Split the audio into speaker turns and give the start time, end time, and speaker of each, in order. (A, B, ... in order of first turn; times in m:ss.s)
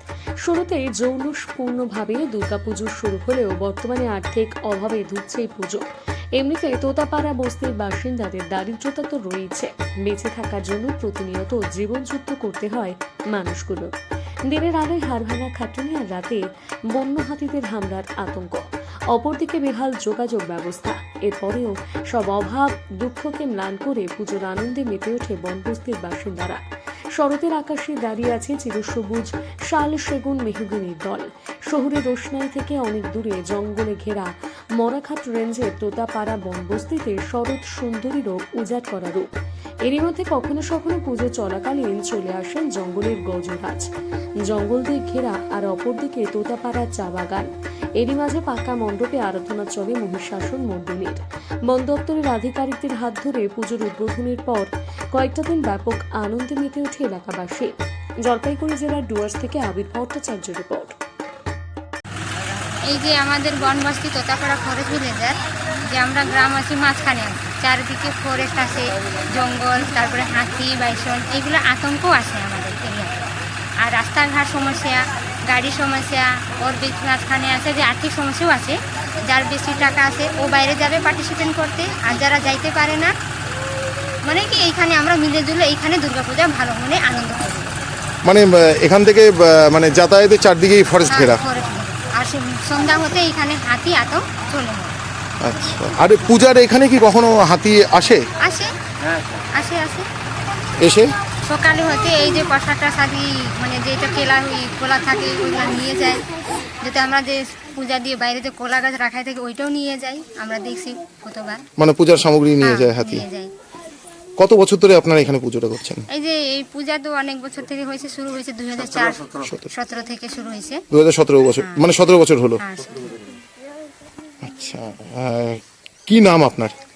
0:00.4-0:05.8 A
0:06.4-0:13.9 A
0:14.5-0:26.6 A
0:27.2-0:39.3 A
0:39.8-0:43.9 A
0:44.4-0:57.7 A
0:58.2-1:01.0 A
1:02.9-1:05.4 B
1:05.9-1:08.8 B
1:09.4-1:13.2 B
1:13.8-1:18.8 B
1:19.3-1:23.1 B
1:24.2-1:27.8 B
1:28.2-1:31.4 C
1:31.0-1:35.0 B
1:35.4-1:38.3 C
1:38.4-1:38.7 B
1:39.5-1:40.0 B
1:40.8-1:41.2 C
1:41.5-1:46.2 B
1:46.8-1:51.6 B
1:51.8-1:53.3 C
1:52.6-1:53.5 B
1:54.4-1:56.0 C
1:56.1-2:00.8 B
1:59.4-1:59.7 C
2:00.9-2:02.6 C
2:01.6-2:01.9 B
2:02.6-2:03.1 B
2:04.4-2:06.7 C